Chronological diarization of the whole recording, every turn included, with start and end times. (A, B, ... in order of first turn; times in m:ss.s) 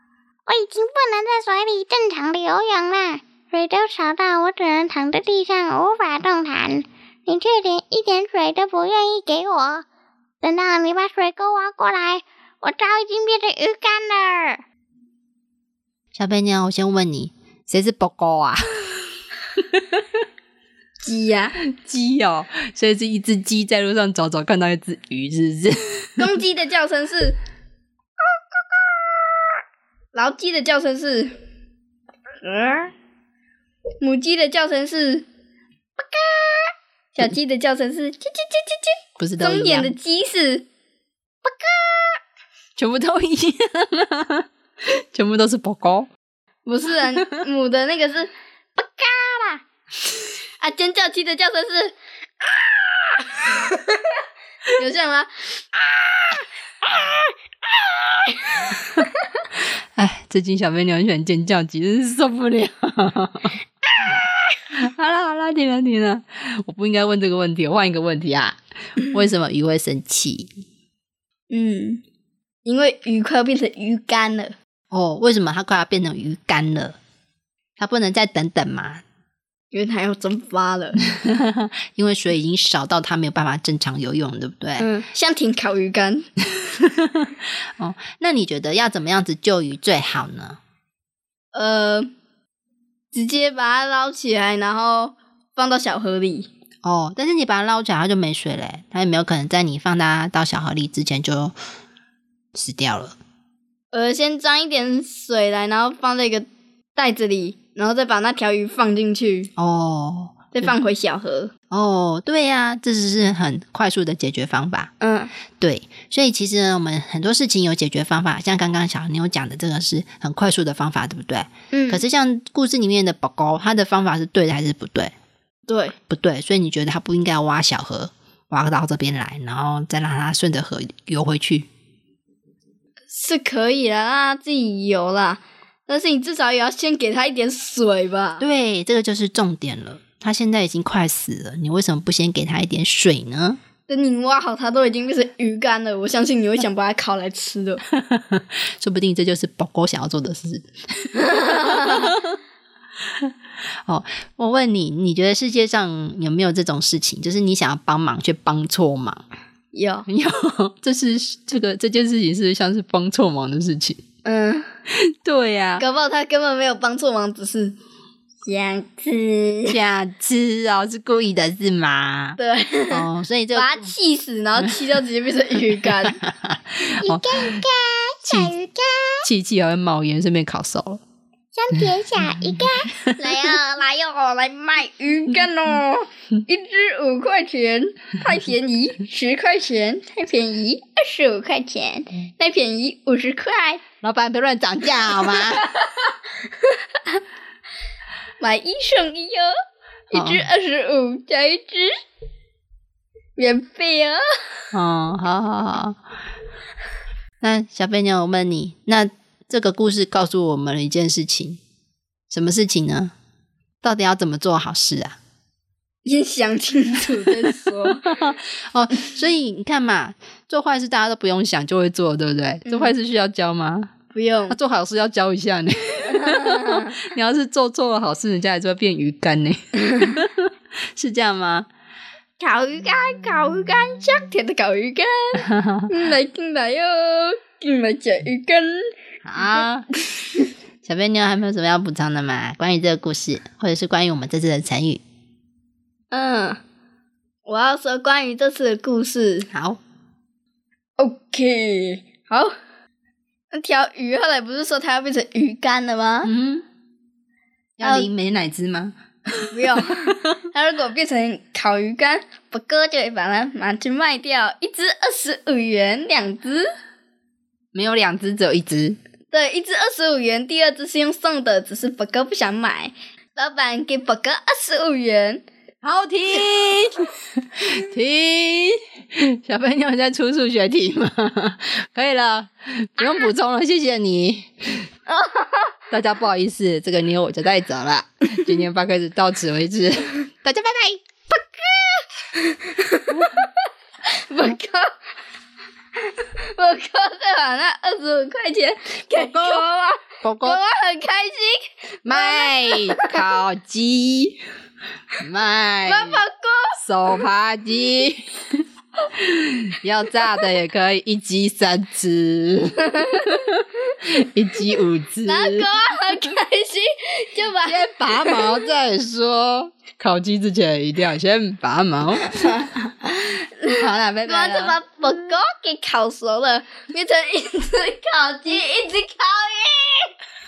0:00.5-0:09.8 A
0:10.4-0:14.6 A
0:16.1-0:20.0 B
0:21.0-0:21.5 C
0:21.7-0:26.3 B
0:26.2-0:27.4 C
0:28.7-0:29.3 C
0:30.1-0:31.4 C
0:32.4-0:32.9 C
0:34.0-0:35.2 C
0:36.0-0:40.6 C
0:39.2-0:39.9 B
0:41.4-0:42.2 C
0:42.8-0:44.4 B
0:45.1-0:46.1 B
0:46.6-0:49.6 C
0:50.6-0:51.9 C
0:52.5-0:54.1 C
0:54.7-0:56.4 C
0:58.1-0:59.0 C
1:00.0-1:10.5 B
1:11.5-1:12.0 C
1:12.6-1:14.5 C
1:14.9-1:17.0 B
1:17.8-1:19.0 B
1:19.7-1:21.0 C
1:21.3-1:24.9 B
1:24.8-1:26.3 C
1:27.8-1:30.6 B
1:31.5-1:32.1 C
1:33.1-1:36.5 C
1:36.8-1:41.6 B
1:42.5-1:43.2 B
1:43.9-1:49.5 C
1:49.6-1:50.7 B
1:50.5-1:51.5 C
1:51.7-1:54.9 B
1:55.0-1:55.3 C
1:55.6-2:05.1 B
2:01.7-2:02.0 C
2:05.7-2:05.9 C
2:06.1-2:11.7 B
2:13.1-2:18.4 C
2:18.4-2:23.6 B
2:23.9-2:27.8 C
2:27.9-2:32.3 B
2:31.2-2:32.1 C
2:33.8-2:39.2 B
2:39.7-2:40.1 C
2:40.0-2:44.0 B
2:44.2-2:44.7 C
2:44.9-2:45.8 B
2:45.8-2:47.8 C
2:48.4-2:49.8 C
2:49.7-2:52.4 B
2:52.4-2:56.2 C
2:52.9-2:53.9 B
2:56.2-2:57.6 B
2:57.0-2:59.2 A
2:58.3-2:58.5 B
2:59.2-3:01.0 B
3:01.5-3:03.1 A
3:02.2-3:03.4 B
3:03.2-3:13.8 C
3:14.0-3:15.6 B
3:15.6-3:16.1 C
3:18.4-3:19.5 C
3:20.1-3:21.9 C
3:20.1-3:20.4 B
3:23.4-3:24.2 C
3:24.7-3:26.0 B
3:27.4-3:31.6 B
3:32.3-3:33.1 B
3:33.8-3:35.2 B
3:36.0-3:38.0 C
3:37.6-3:43.9 B
3:42.7-3:42.9 C
3:44.1-3:44.6 C
3:44.5-3:51.7 B
3:46.1-3:46.9 C
3:52.4-3:58.9 C
3:55.4-3:55.9 B
3:59.2-3:59.9 B
3:59.5-4:00.5 C
4:00.8-4:05.0 B
4:06.1-4:06.6 C
4:07.4-4:09.5 C
4:09.5-4:09.8 B
4:11.0-4:12.5 C
4:13.5-4:16.3 C
4:16.2-4:16.6 B
4:17.8-4:20.1 B
4:17.8-4:18.1 C
4:19.5-4:26.7 C
4:27.7-4:29.0 B
4:29.3-4:35.4 C
4:35.8-4:44.9 B
4:45.1-4:45.7 C
4:45.9-4:51.0 B
4:51.3-4:53.4 C
4:54.2-4:54.9 C
4:56.4-5:03.1 C
4:59.1-4:59.6 B
5:00.2-5:00.6 B
5:02.0-5:04.4 B
5:05.2-5:06.2 B
5:05.8-5:06.8 C
5:06.8-5:08.3 B
5:09.1-5:15.7 B
5:15.2-5:18.4 C
5:17.6-5:22.7 B
5:23.3-5:24.8 B
5:24.2-5:30.1 C